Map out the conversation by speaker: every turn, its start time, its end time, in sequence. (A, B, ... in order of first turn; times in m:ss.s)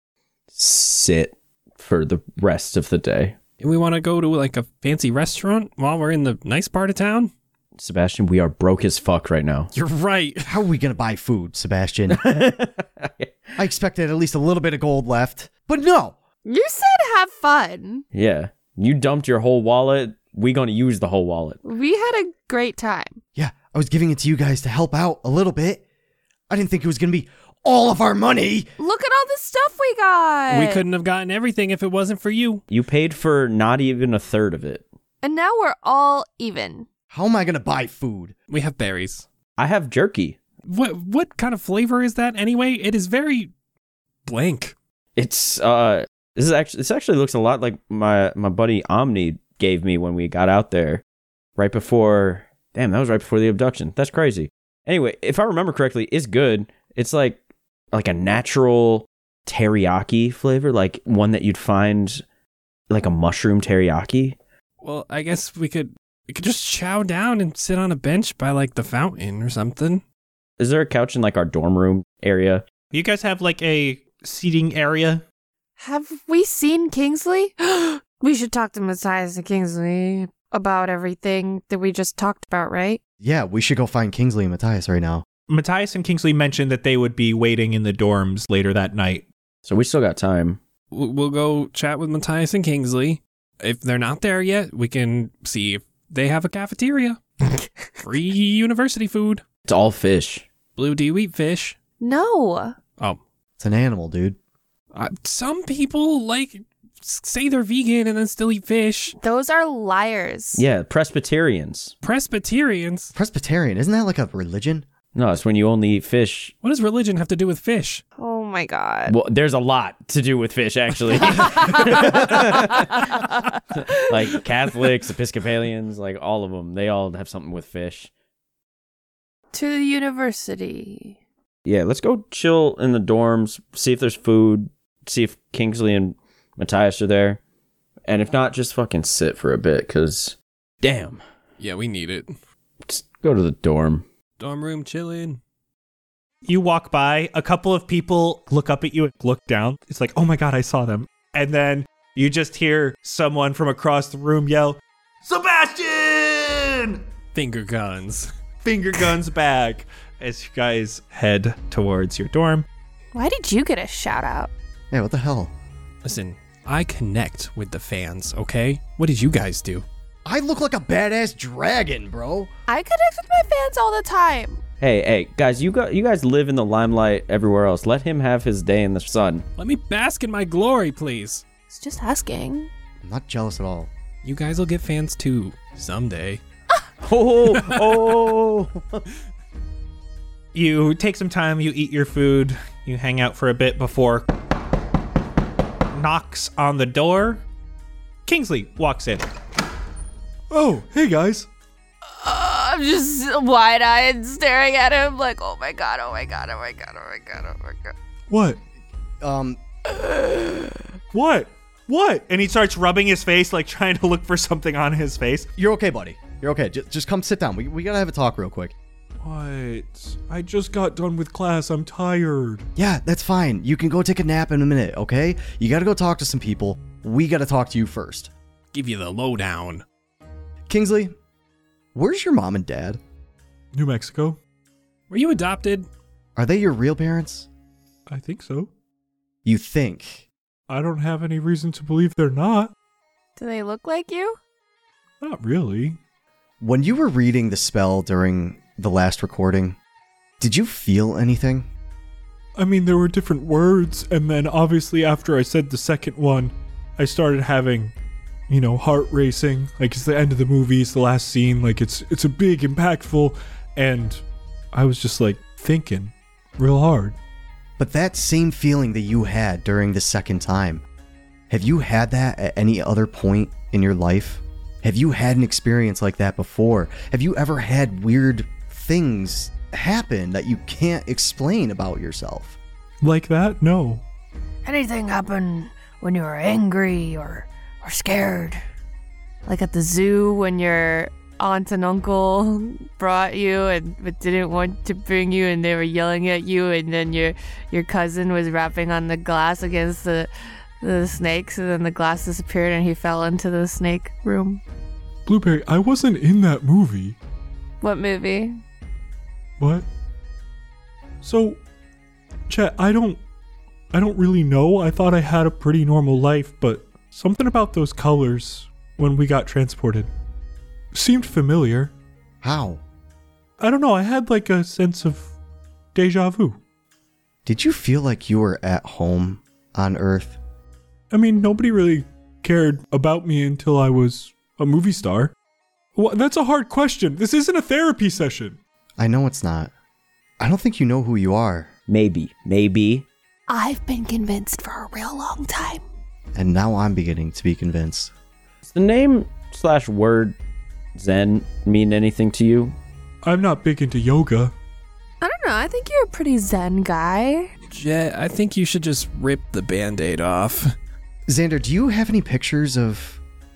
0:00.5-0:03.4 A
0:03.6-0:07.3 B
0:07.8-0:09.7 A
0:09.7-0:10.5 B
0:10.5-0:12.2 C
0:12.1-0:13.5 A
0:13.6-0:16.2 C
0:16.5-0:18.0 D
0:18.1-0:21.6 A
0:21.6-0:23.2 D
0:23.4-0:25.8 C
0:26.5-0:28.7 C
0:28.8-0:30.8 D
0:30.5-0:32.6 B
0:32.7-0:34.8 A
0:35.2-0:36.9 D
0:37.1-0:38.3 C
0:38.5-0:39.3 B
0:39.6-0:40.4 A
0:40.6-0:43.5 B
0:44.2-0:44.8 B
0:45.2-0:51.0 A
0:51.6-0:57.4 A
0:57.9-1:02.2 A
1:02.9-1:04.4 A
1:04.8-1:10.0 B
1:10.6-1:12.6 A
1:12.9-1:15.2 E
1:15.8-1:23.0 D
1:23.2-1:25.2 C
1:25.5-1:29.3 E
1:29.6-1:30.6 A
1:30.9-1:37.2 B
1:38.0-1:39.4 B
1:39.7-1:40.5 A
1:40.8-1:41.8 B
1:42.0-1:42.8 D
1:43.6-1:44.4 C
1:44.9-1:49.2 B
1:49.2-1:50.6 D
1:50.6-1:52.0 A
1:52.0-1:53.1 B
1:53.2-1:54.9 C
1:55.1-1:56.6 A
1:56.6-1:58.0 B
1:58.2-1:59.2 D
1:59.1-2:03.2 A
2:01.9-2:03.6 D
2:04.0-2:08.1 A
2:09.5-2:11.2 D
2:11.7-2:17.4 A
2:18.1-2:21.2 A
2:21.6-2:22.4 B
2:22.9-2:24.1 A
2:24.4-2:25.4 B
2:26.4-2:37.0 E
2:37.4-2:38.3 B
2:38.6-2:42.7 E
2:43.1-2:44.5 D
2:44.9-2:45.5 C
2:46.0-2:49.9 B
2:50.3-2:52.5 C
2:52.7-2:54.6 D
2:54.8-2:59.4 A
2:59.6-3:01.4 B
3:01.7-3:02.7 D
3:03.0-3:03.9 C
3:04.2-3:06.4 B
3:07.0-3:09.0 A
3:10.5-3:14.3 E
3:15.9-3:17.4 E
3:18.3-3:19.3 E
3:20.5-3:21.5 E
3:22.1-3:27.9 D
3:28.3-3:28.6 E
3:29.2-3:29.6 C
3:30.0-3:30.7 D
3:31.1-3:35.5 E
3:35.6-3:38.8 C
3:39.2-3:42.7 E
3:42.8-3:48.3 C
3:48.7-3:49.8 B
3:50.7-3:51.1 C
3:52.0-3:53.0 C
3:53.7-3:54.4 E
3:55.1-3:55.9 B
3:56.4-3:57.5 C
3:58.1-3:58.7 E
3:59.4-4:00.3 C
4:00.7-4:02.7 E
4:03.4-4:04.4 D
4:05.2-4:06.0 E
4:06.6-4:09.8 C
4:10.4-4:11.7 C
4:12.6-4:17.9 E
4:18.5-4:27.2 E
4:27.8-4:30.8 C
4:31.5-4:42.6 C
4:43.0-4:44.0 E
4:44.6-4:48.6 D
4:49.5-5:00.3 D
5:00.8-5:04.6 D
5:05.3-5:07.2 E
5:07.8-5:08.6 D
5:09.6-5:09.9 E
5:11.2-5:11.6 E
5:12.5-5:13.2 E
5:13.9-5:20.1 E
5:20.9-5:21.9 E
5:22.4-5:22.8 C
5:23.6-5:25.3 E
5:26.0-5:26.6 E
5:27.4-5:30.4 C
5:31.1-5:35.3 E
5:36.0-5:38.6 E
5:39.0-5:39.7 C
5:40.4-5:41.7 C
5:41.9-5:43.1 A
5:43.5-5:45.8 D
5:46.4-5:48.1 C
5:48.7-5:50.4 A
5:51.0-5:52.8 A
5:53.2-5:54.5 E
5:55.2-5:57.5 D
5:57.7-6:00.7 B
6:01.3-6:03.2 C